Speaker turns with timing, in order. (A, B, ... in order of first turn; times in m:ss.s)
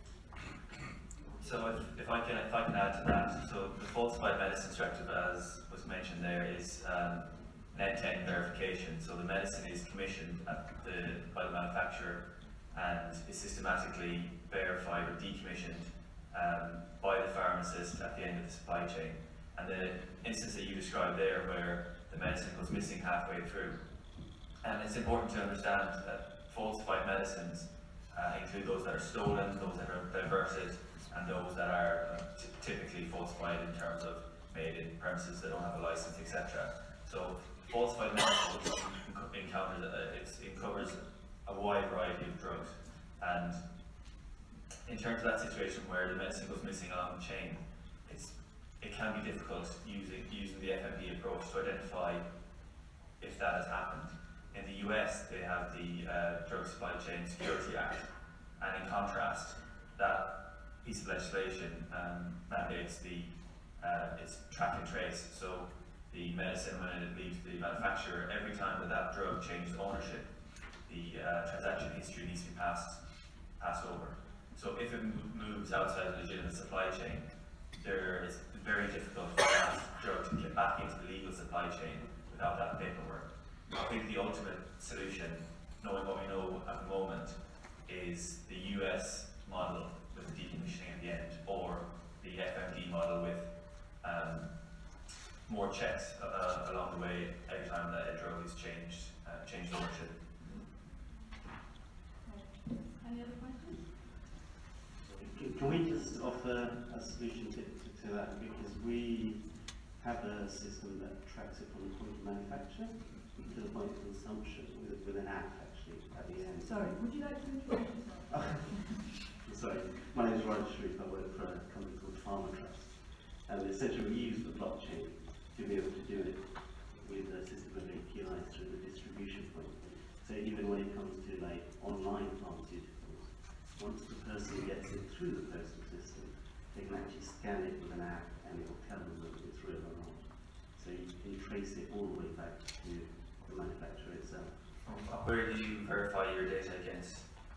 0:01.4-0:23.8 A
0:24.6-0:43.6 A
0:44.9-0:52.2 A
0:53.2-1:10.3 A
1:10.9-1:13.0 A
1:13.6-1:34.5 A
1:35.5-1:40.2 A
1:42.2-1:44.1 B
1:45.0-1:56.9 C
1:56.6-1:58.5 B
1:58.3-1:58.7 C
1:59.4-2:24.6 C
2:24.8-2:27.3 A